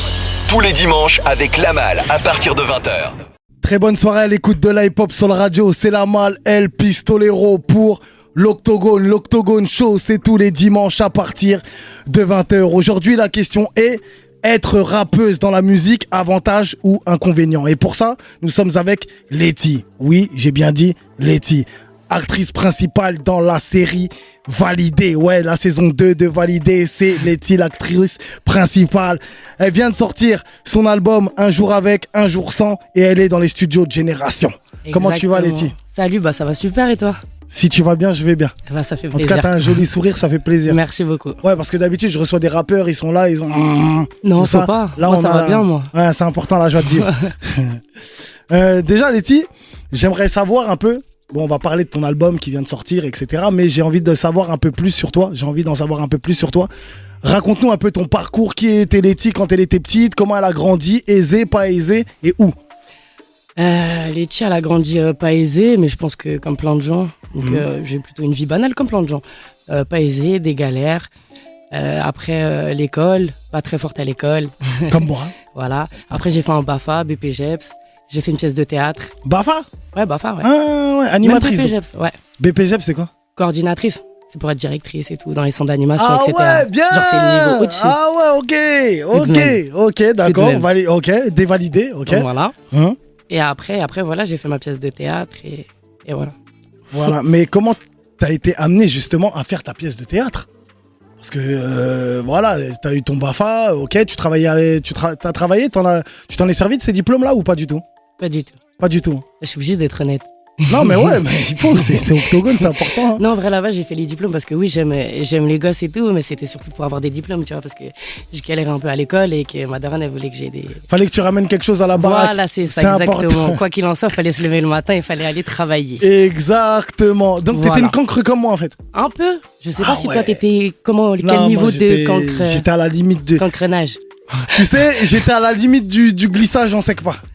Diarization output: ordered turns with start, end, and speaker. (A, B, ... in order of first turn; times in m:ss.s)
0:00.5-0:03.1 A
0:03.6-0:35.7 B
0:34.8-0:37.2 C
0:37.5-0:38.5 B
0:38.7-0:39.8 C
0:39.1-0:40.8 B
0:40.6-0:41.4 C
0:41.4-0:47.8 B
0:44.2-0:45.9 C
0:46.9-0:47.3 C
0:48.5-0:56.7 B
0:57.2-1:02.5 B
1:03.6-1:11.1 C
1:07.4-1:07.6 B
1:11.7-1:19.1 C
1:14.9-1:15.3 B
1:19.2-1:19.7 B
1:19.9-1:20.5 C
1:20.4-1:21.7 B
1:21.2-1:22.1 C
1:22.4-1:23.1 B
1:23.4-1:28.0 C
1:26.0-1:33.0 B
1:29.1-1:29.6 C
1:30.2-1:30.6 C
1:32.1-1:32.5 C
1:33.3-1:36.4 C
1:36.9-1:40.5 B
1:41.2-1:47.8 B
1:48.2-1:48.6 C
1:48.8-1:49.2 B
1:49.4-2:00.8 C
1:50.7-1:53.2 B
2:00.9-2:03.6 B
2:02.0-2:06.0 C
2:06.0-2:08.8 B
2:07.5-2:07.9 C
2:08.9-2:12.6 C
2:09.8-2:10.4 B
2:11.2-2:13.4 B
2:13.4-2:15.0 C
2:14.5-2:17.2 B